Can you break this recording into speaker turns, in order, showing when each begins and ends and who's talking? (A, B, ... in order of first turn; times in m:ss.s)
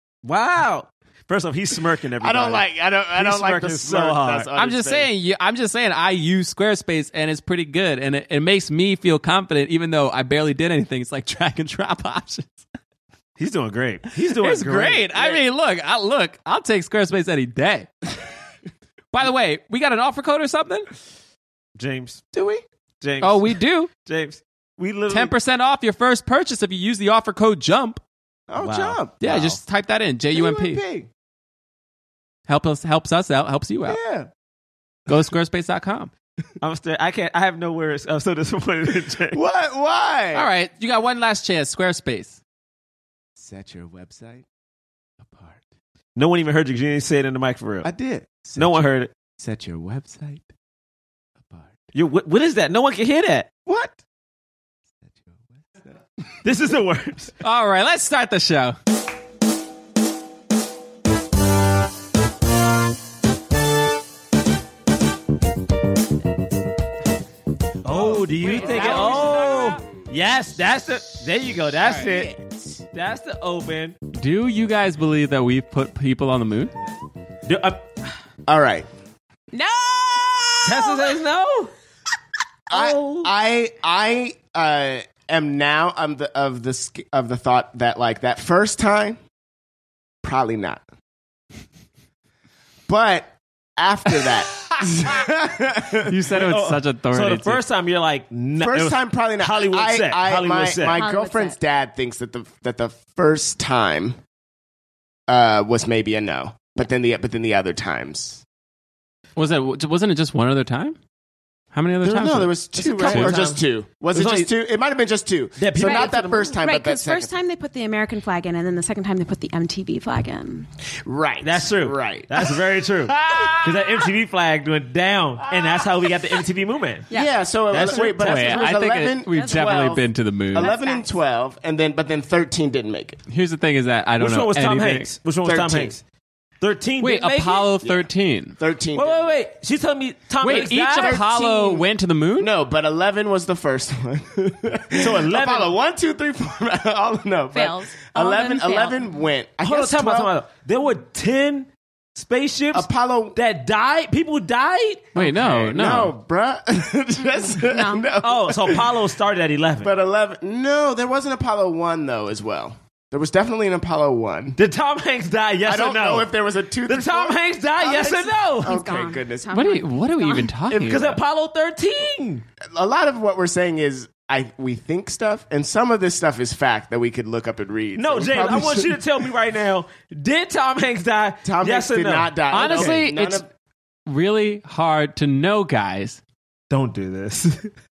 0:00.2-0:04.5 A
0:02.2-0:05.1 B
0:04.6-0:12.5 C
0:13.4-0:15.4 A
0:14.2-0:17.9 C
0:19.1-0:20.9 C
0:21.7-0:22.2 A
0:22.3-0:22.6 B
0:23.0-0:25.3 A
0:23.2-0:23.9 C
0:25.1-0:28.0 C
0:28.5-0:29.2 B
0:28.6-0:29.6 A
0:29.2-0:30.8 C
0:30.3-0:31.1 B
0:32.4-0:34.0 C
0:33.8-0:34.3 B
0:35.1-0:36.1 C
0:36.6-0:39.4 A
0:39.3-0:40.5 B
0:40.3-0:42.4 C
0:43.4-0:44.4 B
0:45.2-0:45.6 B
0:46.2-0:47.9 A
0:47.8-0:48.8 B
0:48.6-0:49.1 A
0:49.4-0:50.5 B
0:51.4-0:51.7 B
0:51.9-0:53.5 A
0:53.6-0:54.0 B
0:55.0-0:55.9 B
0:56.4-0:57.3 A
0:57.4-0:58.8 C
1:07.8-1:12.3 A
1:07.9-1:09.8 C
1:08.7-1:09.2 B
1:11.8-1:12.8 B
1:12.9-1:14.0 A
1:14.2-1:16.7 C
1:17.4-1:17.9 A
1:18.5-1:18.9 B
1:19.5-1:21.1 D
1:20.6-1:21.7 A
1:22.7-1:29.2 B
1:22.7-1:23.3 A
1:30.2-1:30.8 B
1:32.9-1:36.2 B
1:36.1-1:37.6 C
1:36.3-1:41.0 A
1:38.6-1:44.2 B
1:40.9-1:41.6 D
1:45.3-1:48.4 B
1:49.4-1:51.0 C
1:51.7-1:53.4 C
1:52.0-1:57.3 B
1:52.8-1:53.6 A
1:54.1-1:54.5 A
1:55.6-1:56.6 A
1:55.8-2:00.7 D
2:01.0-2:04.1 B
2:01.4-2:07.1 A
2:05.4-2:06.2 B
2:07.1-2:13.2 B
2:07.7-2:08.7 A
2:07.8-2:10.7 C
2:09.3-2:09.7 D
2:10.6-2:11.1 D
2:13.3-2:15.1 C
2:14.2-2:16.0 A
2:15.4-2:15.9 B
2:16.6-2:17.7 A
2:17.0-2:18.6 C
2:17.8-2:18.1 B
2:18.6-2:19.4 B
2:18.9-2:21.2 A
2:20.4-2:22.5 C
2:21.0-2:21.8 B
2:22.4-2:30.4 B
2:24.9-2:25.8 A
2:27.5-2:29.1 D
2:29.6-2:35.7 A
2:32.7-2:33.4 B
2:35.1-2:36.1 C
2:35.3-2:39.0 B
2:37.4-2:38.1 D
2:38.2-2:39.9 A
2:39.8-2:44.6 B
2:44.6-2:46.3 A
2:45.6-2:49.5 B
2:46.9-2:48.7 A
2:48.6-2:50.5 D
2:49.5-2:51.2 C
2:50.7-2:52.4 A
2:52.7-2:59.0 B
2:58.0-3:03.0 A
3:01.4-3:03.5 B
3:02.5-3:03.4 C
3:04.1-3:06.2 C
3:06.7-3:07.7 A